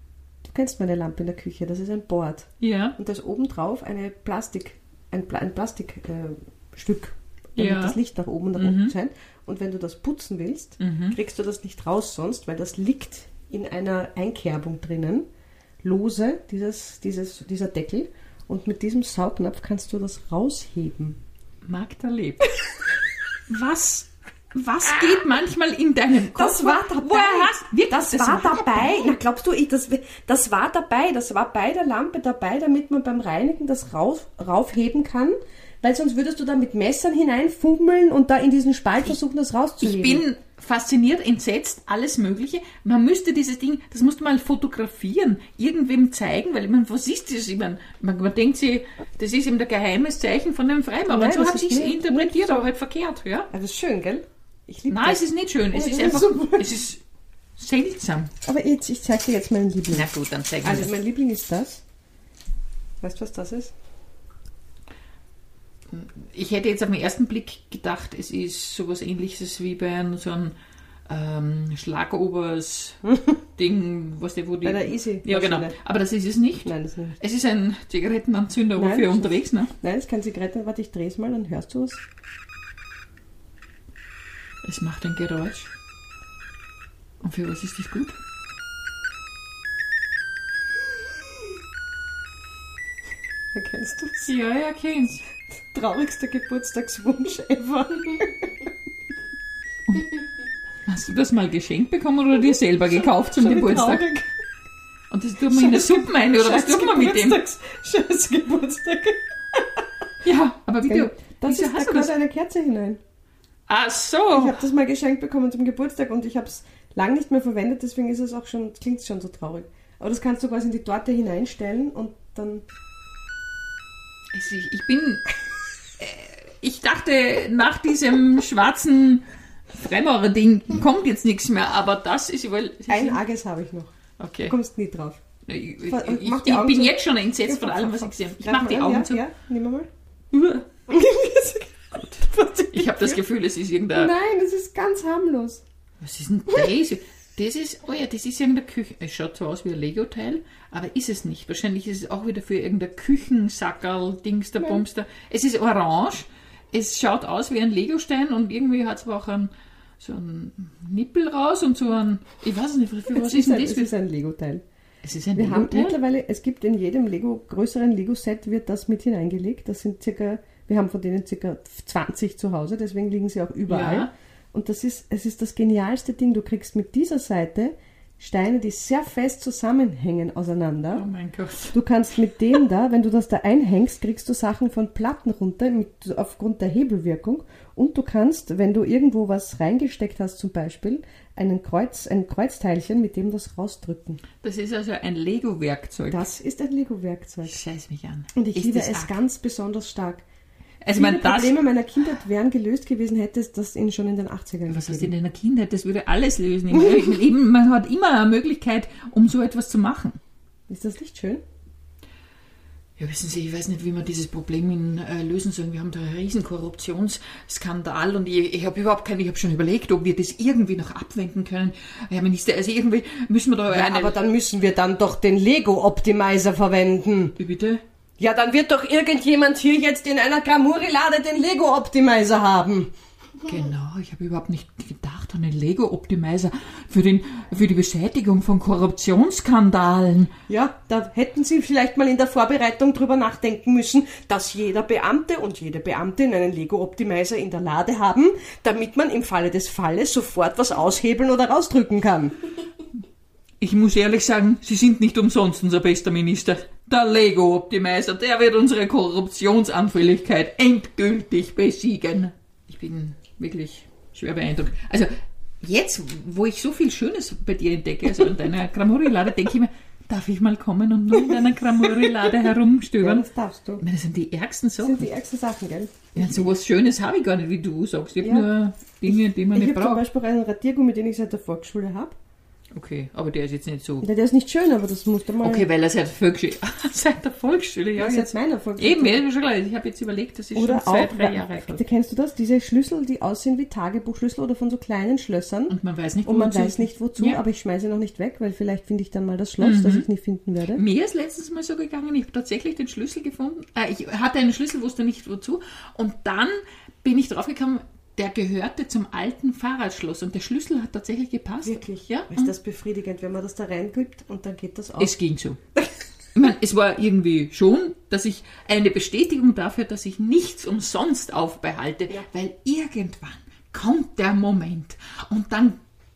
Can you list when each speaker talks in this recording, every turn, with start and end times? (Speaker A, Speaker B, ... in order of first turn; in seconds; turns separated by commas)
Speaker A: 0.5-15.2, Speaker B: 2.6-3.0, Speaker B: 7.6-8.0, Speaker B: 8.6-8.9, Speaker B: 10.8-11.2, Speaker A: 15.8-21.2, Speaker B: 21.6-22.6, Speaker B: 23.5-29.2, Speaker A: 26.3-40.2, Speaker B: 39.8-53.5, Speaker A: 51.1-52.7, Speaker A: 53.5-56.7, Speaker B: 54.9-57.0, Speaker B: 57.6-58.3, Speaker A: 58.4-60.1, Speaker B: 59.9-60.9, Speaker A: 60.6-61.8, Speaker A: 63.0-63.7, Speaker B: 65.9-70.5, Speaker B: 71.1-79.7, Speaker A: 74.6-75.8, Speaker A: 76.6-77.2, Speaker A: 78.8-82.0, Speaker B: 84.6-85.7, Speaker B: 87.2-88.2, Speaker A: 93.5-94.3, Speaker B: 94.3-95.2, Speaker A: 95.6-98.5, Speaker B: 99.9-100.1, Speaker B: 100.9-104.1, Speaker A: 102.8-104.3, Speaker B: 105.1-107.4, Speaker A: 105.5-109.7, Speaker B: 110.2-112.1, Speaker A: 110.8-113.0, Speaker B: 113.7-114.6, Speaker A: 114.3-122.6, Speaker B: 124.3-125.3, Speaker B: 126.0-133.2, Speaker A: 132.9-133.9, Speaker B: 134.2-134.6, Speaker A: 134.5-135.2, Speaker B: 135.5-139.2, Speaker A: 135.9-139.9, Speaker B: 140.3-140.7, Speaker A: 140.9-143.2, Speaker B: 141.9-144.1, Speaker A: 143.9-145.6, Speaker B: 146.0-163.9, Speaker A: 154.6-154.8, Speaker A: 163.1-164.6, Speaker B: 165.0-166.0, Speaker A: 165.3-181.1, Speaker B: 173.7-174.1, Speaker B: 180.9-181.8, Speaker A: 181.7-194.2, Speaker B: 194.4-196.3, Speaker A: 196.1-197.6, Speaker B: 197.5-199.2, Speaker A: 198.4-200.2, Speaker B: 200.8-201.6, Speaker A: 200.9-205.1, Speaker B: 204.7-210.2, Speaker A: 206.7-207.2, Speaker A: 210.7-211.4, Speaker B: 213.0-224.2, Speaker A: 223.7-227.4, Speaker B: 227.4-227.8, Speaker A: 228.2-232.9, Speaker B: 233.4-240.3, Speaker A: 240.5-252.4, Speaker B: 253.6-273.2, Speaker A: 272.1-272.4, Speaker A: 273.0-273.8, Speaker B: 273.8-275.1, Speaker A: 274.8-276.6, Speaker B: 276.1-280.0, Speaker A: 278.2-278.5, Speaker A: 279.1-282.2, Speaker B: 282.8-284.1, Speaker A: 284.0-285.7, Speaker B: 285.4-291.8, Speaker A: 288.0-289.2, Speaker A: 290.6-300.8, Speaker B: 295.7-297.4, Speaker B: 299.6-300.1, Speaker B: 300.7-312.5, Speaker A: 311.6-315.2, Speaker B: 315.0-315.6, Speaker B: 316.4-325.8